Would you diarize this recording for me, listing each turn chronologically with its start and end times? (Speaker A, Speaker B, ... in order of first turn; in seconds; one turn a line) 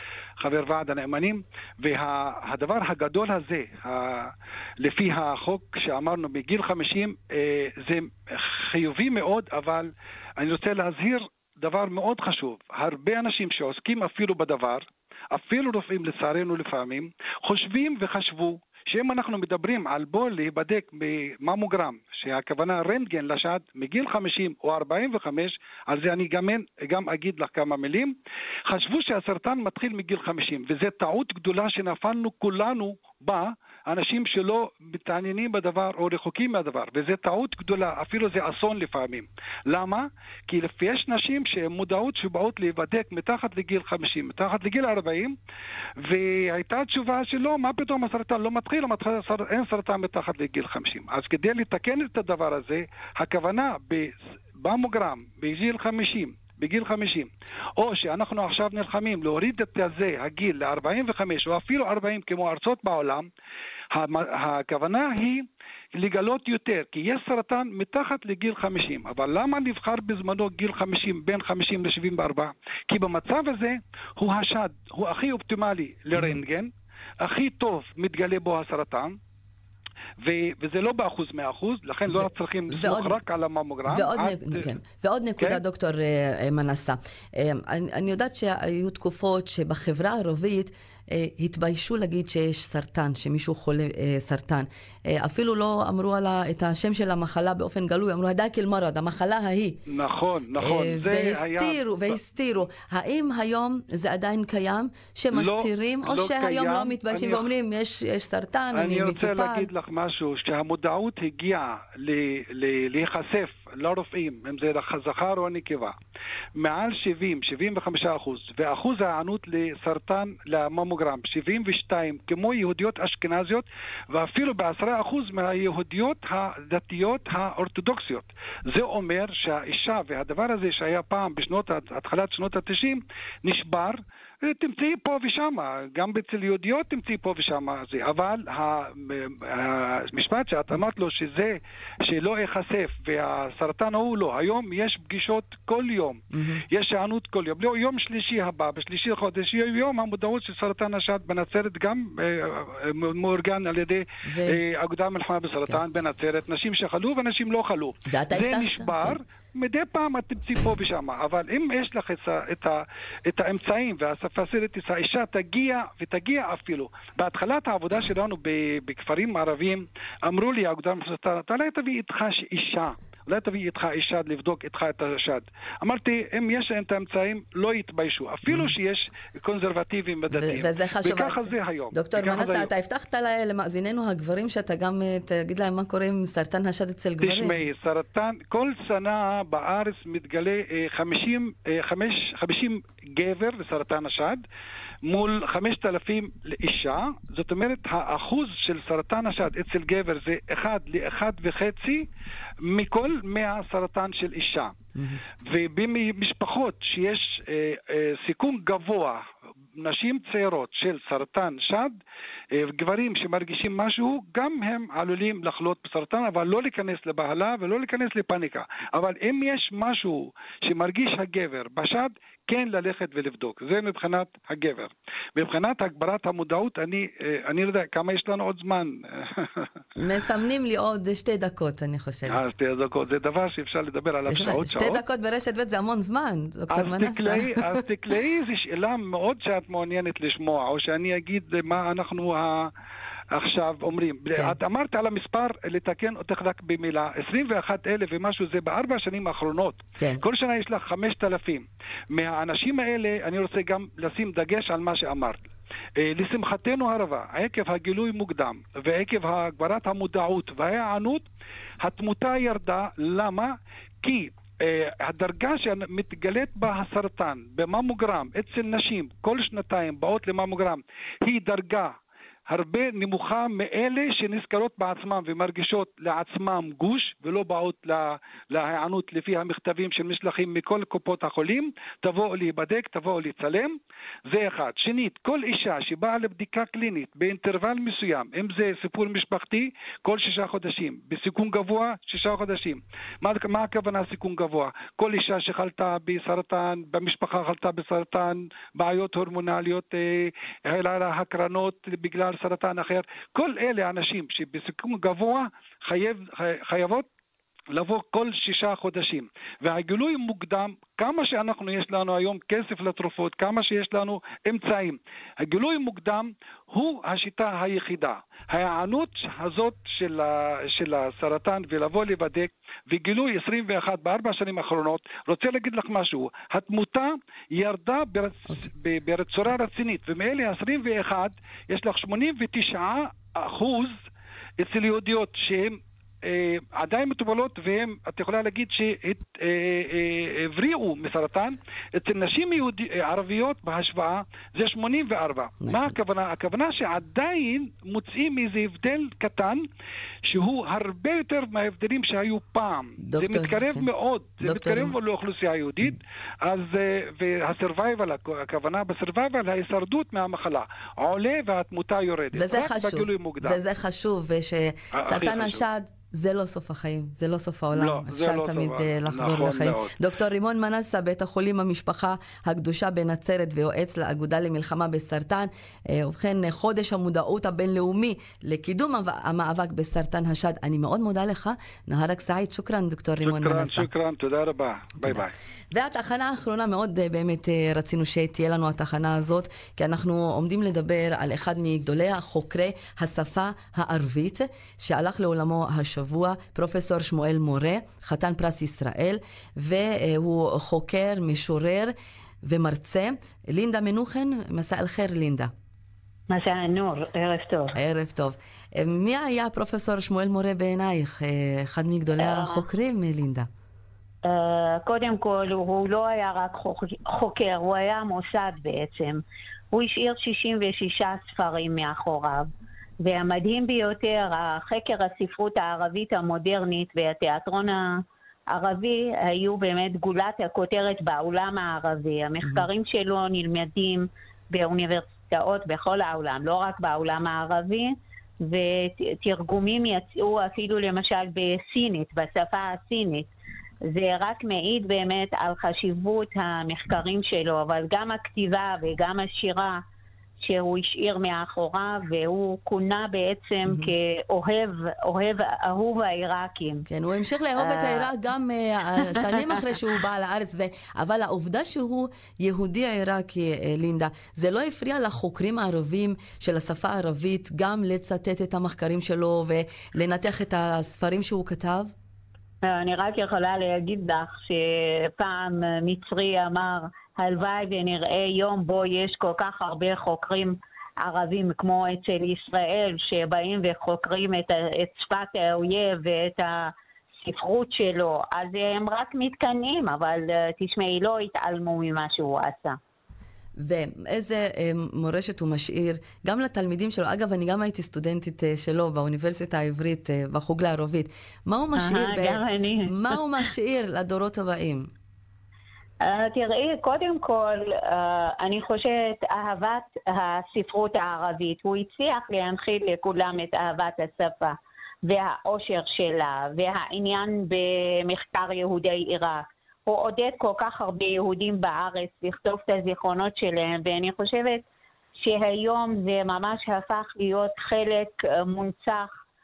Speaker A: 0.4-45.4
Speaker A: 46.0-63.3
Speaker A: 63.9-76.7
Speaker A: 77.2-79.2
Speaker A: 80.2-84.8
Speaker B: 82.1-83.2
Speaker B: 83.9-99.8
Speaker A: 99.9-102.2
Speaker B: 100.6-109.7
Speaker A: 105.3-107.5
Speaker A: 108.7-116.0
Speaker A: 116.6-182.7
Speaker B: 146.3-146.6
Speaker B: 154.2-154.6
Speaker B: 158.1-159.2
Speaker B: 178.5-178.7
Speaker B: 180.3-187.6
Speaker A: 187.2-194.4
Speaker A: 195.1-202.1
Speaker A: 202.6-204.7
Speaker B: 205.0-205.2
Speaker A: 205.4-209.2
Speaker A: 209.8-212.0
Speaker A: 212.6-229.7
Speaker B: 230.0-232.5
Speaker A: 232.3-235.0
Speaker B: 234.3-237.8
Speaker A: 236.7-242.7
Speaker A: 243.3-255.4
Speaker A: 256.0-261.3
Speaker A: 261.8-271.9
Speaker A: 272.5-307.1
Speaker A: 307.7-334.0
Speaker A: 334.6-349.6
Speaker B: 345.6-345.9
Speaker A: 350.3-363.6
Speaker B: 353.0-353.9
Speaker B: 354.4-354.9
Speaker B: 362.3-383.9
Speaker A: 364.9-365.6
Speaker A: 367.7-370.0
Speaker A: 383.2-385.3
Speaker B: 385.0-405.5
Speaker C: 406.3-407.8
Speaker B: 407.8-413.5
Speaker C: 412.2-412.6
Speaker C: 414.2-422.5
Speaker C: 423.0-443.3
Speaker B: 432.4-432.7
Speaker C: 443.9-449.8
Speaker C: 450.4-456.9
Speaker B: 453.7-453.9
Speaker B: 456.9-471.9
Speaker C: 457.6-458.1
Speaker C: 459.0-459.6
Speaker C: 472.6-492.8
Speaker B: 493.6-504.9
Speaker C: 501.8-503.5
Speaker C: 506.0-524.6
Speaker C: 525.2-529.1